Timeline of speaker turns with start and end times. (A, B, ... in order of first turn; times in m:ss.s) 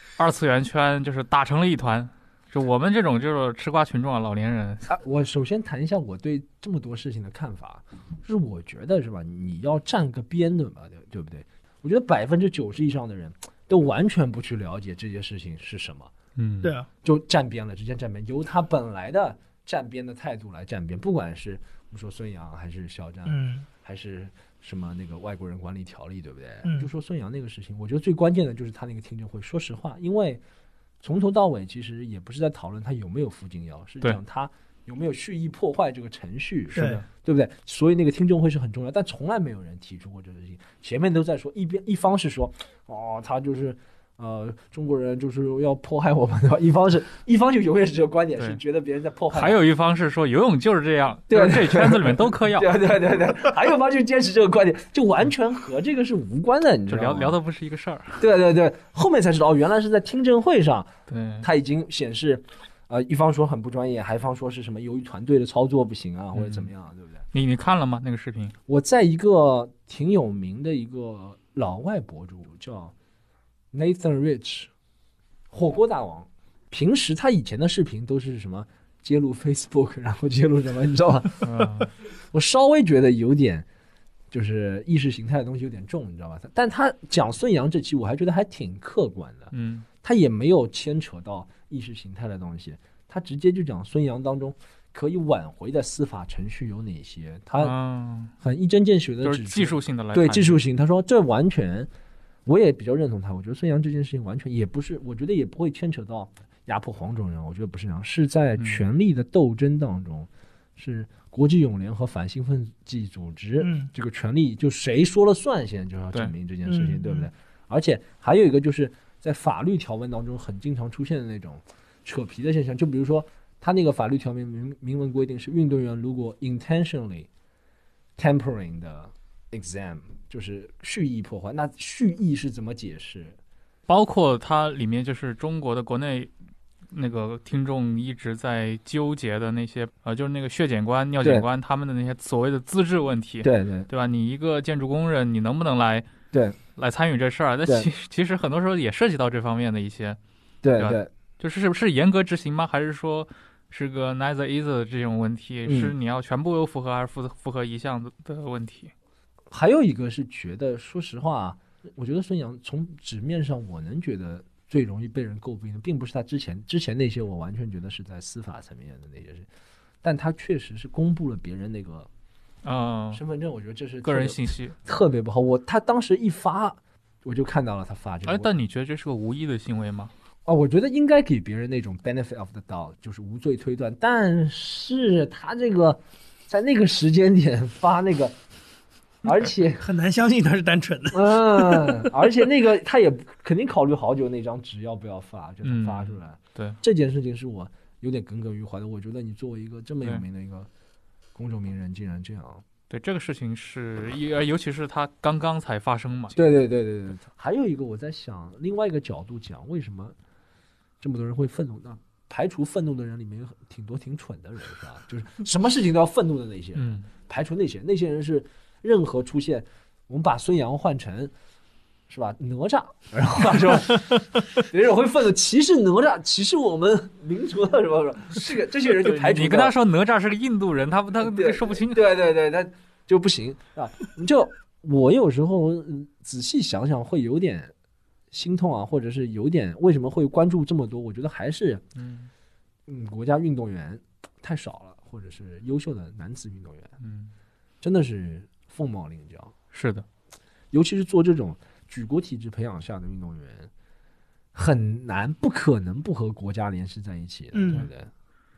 0:00.2-0:04.9 A
0:04.9-0:16.1 B
0:16.4-0:16.7 A
0:17.0-0:30.4 B
0:23.3-0:23.7 C
0:31.0-0:49.6 B
0:36.8-0:37.0 C
0:49.3-0:52.8 A
0:51.3-0:57.4 B
0:56.9-0:58.2 A
0:58.2-1:00.9 B
1:01.1-1:01.5 A
1:01.4-1:07.2 B
1:06.4-1:06.7 A
1:07.3-1:08.6 A
1:08.7-1:12.9 B
1:13.7-1:14.7 B
1:15.5-1:21.7 B
1:21.4-1:21.9 A
1:22.3-1:23.7 B
1:24.3-1:29.5 B
1:29.5-1:29.9 A
1:30.0-1:37.7 B
1:37.6-1:38.3 A
1:38.4-1:41.9 B
1:39.2-1:40.6 A
1:42.5-2:07.3 B
1:48.6-1:48.8 A
1:53.6-1:53.9 C
1:56.7-1:57.3 C
2:08.2-2:13.4 B
2:13.9-2:16.3 A
2:16.9-2:26.1 A
2:23.4-2:23.9 B
2:26.3-2:26.6 B
2:26.8-2:30.2 A
2:30.6-2:31.1 B
2:30.8-2:38.9 A
2:35.7-2:35.9 B
2:39.5-2:49.5 B
2:50.0-2:52.1 B
2:52.6-2:53.2 A
2:53.1-2:58.5 B
2:54.0-2:54.8 A
2:58.3-3:00.1 A
3:00.5-3:08.4 B
3:09.2-3:09.8 B
3:09.8-3:12.1 C
3:11.1-3:20.7 B
3:15.6-3:16.8 A
3:21.4-3:22.6 B
3:22.9-3:26.4 A
3:26.4-3:30.2 B
3:31.0-3:41.3 B
3:36.8-3:37.1 A
3:42.1-3:49.8 B
3:48.9-3:52.0 A
3:51.2-3:57.7 B
3:58.3-4:01.8 B
4:02.0-4:02.3 A
4:02.9-4:06.9 B
4:07.0-4:07.3 A
4:07.8-4:09.5 B
4:09.7-4:10.0 A
4:10.7-4:13.7 B
4:14.5-4:18.1 B
4:17.5-4:17.9 C